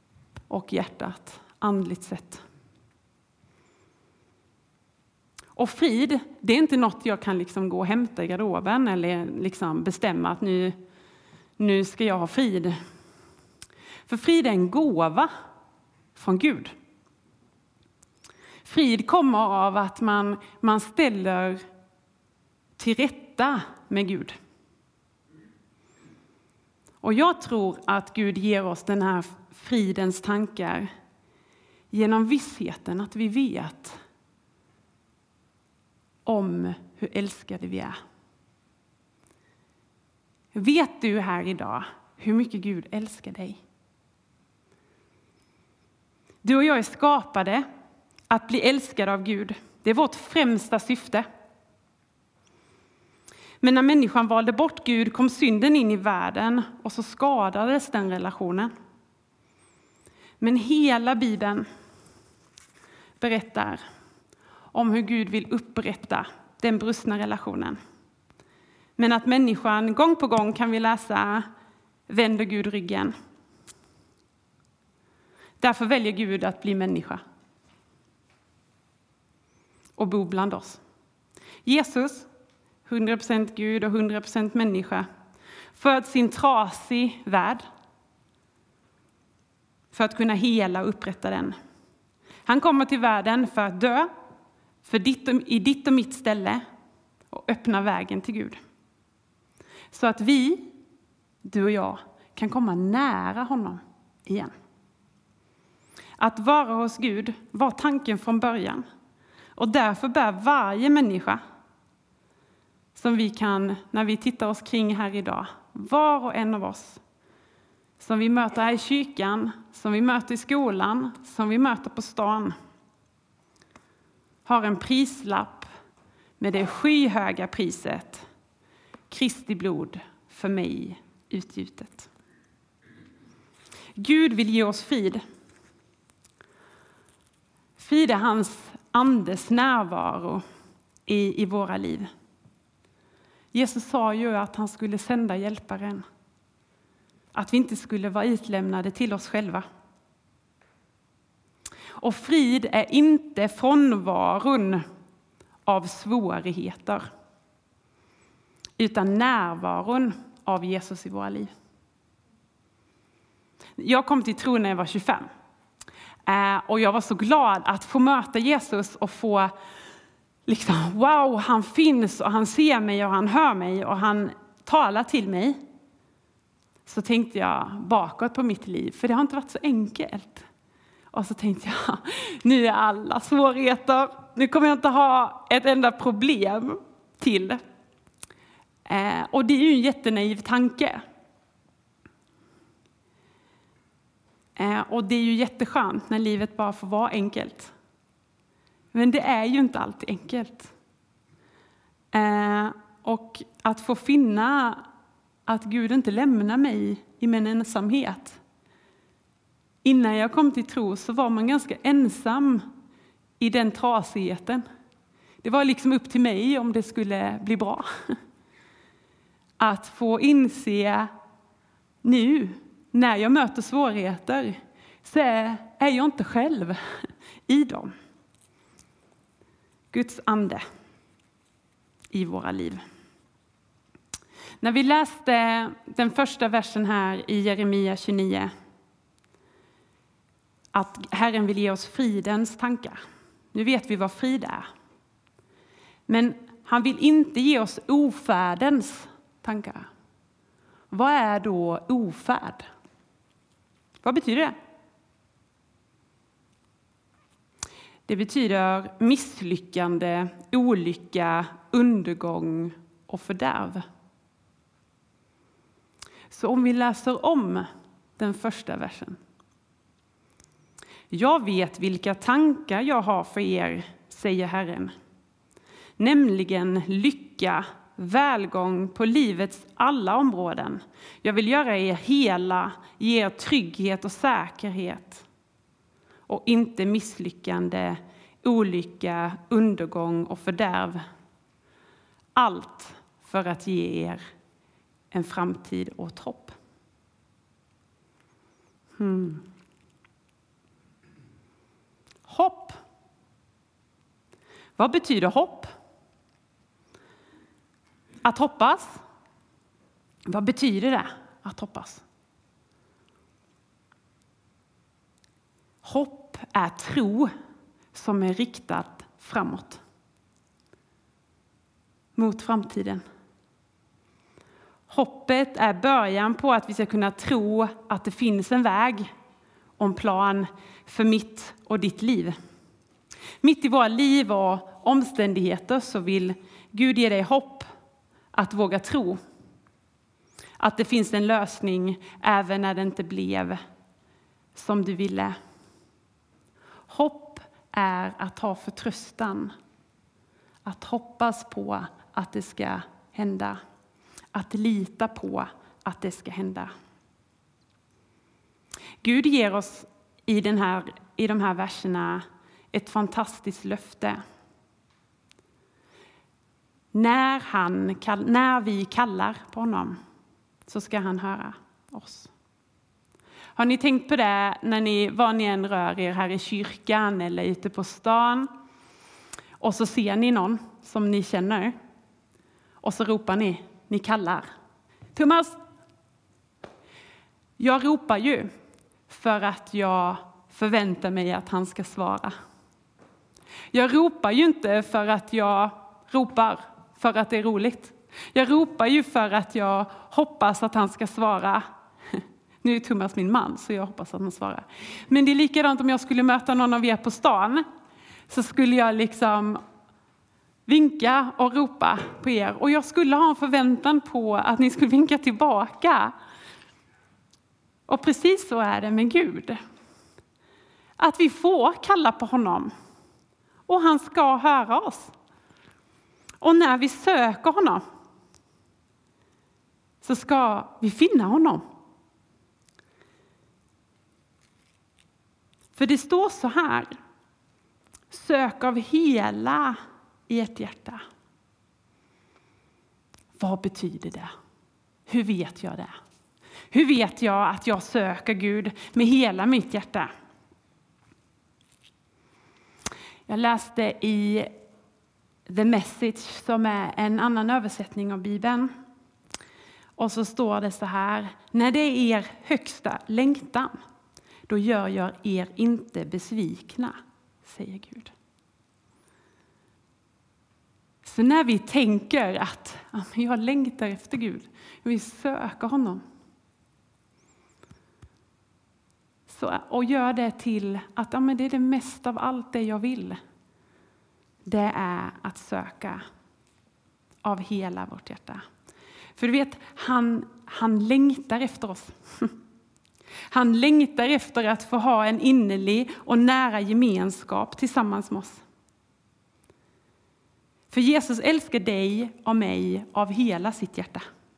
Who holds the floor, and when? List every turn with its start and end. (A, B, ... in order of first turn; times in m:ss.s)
0:00.5-0:02.4 A
0:05.6-0:10.8 A
0:11.6-0:12.8 A
0:14.1-0:15.3 A
0:16.2-0:16.7 A
0:18.6-0:21.6 A
0:22.8-0:24.4 A
0:27.0-0:30.9 A
0:31.9-0:34.0 A
0:36.2-0:38.0 A
0:40.5-0:43.6 A
0:46.4-0:47.6 A
0:48.3-0:51.2 A
0:53.6-0:58.7 A
1:00.4-1:01.7 A
1:03.2-1:03.8 A
1:04.7-1:07.8 A
1:09.0-1:11.5 A
1:12.1-1:13.1 A
1:15.6-1:17.2 A
1:20.0-1:20.8 A
1:21.6-1:22.3 A
1:22.8-1:25.1 A
1:25.7-1:27.6 A
1:29.9-1:31.6 A
1:32.4-1:34.1 A
1:34.8-1:36.6 A
1:37.3-1:38.6 A
1:39.9-1:40.7 A
1:41.4-1:44.5 A
1:46.2-1:48.8 A
1:49.6-1:51.4 A
1:53.0-1:57.0 A
1:58.0-2:02.5 A
2:04.4-2:05.7 A
2:06.4-2:08.2 A
2:09.1-2:12.1 A
2:14.0-2:15.2 A
2:17.8-2:20.4 A
2:21.1-2:22.1 A
2:23.5-2:26.0 A
2:27.3-2:29.6 A
2:32.0-2:34.8 A
2:35.7-2:37.1 A
2:38.8-2:41.5 A
2:43.8-2:45.3 A
2:46.3-2:49.5 A
2:50.5-2:55.6 A
2:56.9-3:00.4 A
3:01.1-3:07.6 A
3:08.9-3:11.0 A
3:14.6-3:17.7 A
3:18.9-3:20.7 A
3:22.1-3:24.8 A
3:25.5-3:28.4 A
3:29.8-3:32.6 A
3:33.4-3:34.6 A
3:35.4-3:38.2 A
3:39.6-3:41.1 A
3:42.0-3:47.9 A
3:49.9-3:50.6 A
3:52.1-3:52.8 A
3:54.6-3:58.5 A
4:00.7-4:03.0 A
4:03.5-4:04.7 A
4:06.1-4:09.9 A
4:10.9-4:12.7 A
4:14.0-4:14.6 A
4:18.1-4:23.8 A
4:26.3-4:29.2 A
4:31.1-4:34.9 A
4:36.0-4:45.2 A
4:46.3-4:51.0 A
4:52.4-4:54.2 A
4:55.1-4:56.5 A
4:59.0-4:59.4 A
5:02.3-5:02.8 A
5:04.8-5:05.7 A
5:08.2-5:09.0 A
5:10.3-5:12.0 A
5:15.8-5:17.3 A
5:17.9-5:19.8 A
5:22.2-5:23.0 A
5:24.9-5:29.1 A
5:29.8-5:32.4 A
5:33.4-5:37.7 A
5:38.3-5:39.2 A
5:40.6-5:43.6 A
5:44.5-5:45.4 A
5:46.9-5:49.5 A
5:50.6-5:53.6 A
5:54.3-5:56.7 A
5:59.0-6:04.2 A
6:06.9-6:10.0 A
6:10.7-6:12.3 A
6:13.6-6:18.5 A
6:19.6-6:21.7 A
6:22.8-6:24.5 A
6:25.1-6:25.6 A
6:27.6-6:28.5 A
6:29.1-6:32.3 A
6:33.7-6:47.6 A
6:48.3-6:49.6 A
6:50.7-6:56.1 A
6:57.9-6:59.6 A
7:01.0-7:02.7 A
7:03.7-7:05.1 A
7:06.4-7:07.8 A
7:10.0-7:11.6 A
7:15.7-7:16.9 A
7:18.1-7:21.0 A
7:23.4-7:24.3 A
7:25.1-7:25.9 A
7:26.7-7:30.1 A
7:33.3-7:34.5 A
7:35.5-7:38.7 A
7:40.0-7:43.7 A
7:44.5-7:48.1 A
7:51.0-7:56.0 A
7:59.3-8:03.2 A
8:04.5-8:06.0 A
8:07.2-8:08.4 A
8:09.2-8:12.3 A
8:13.3-8:18.4 A
8:20.7-8:24.0 A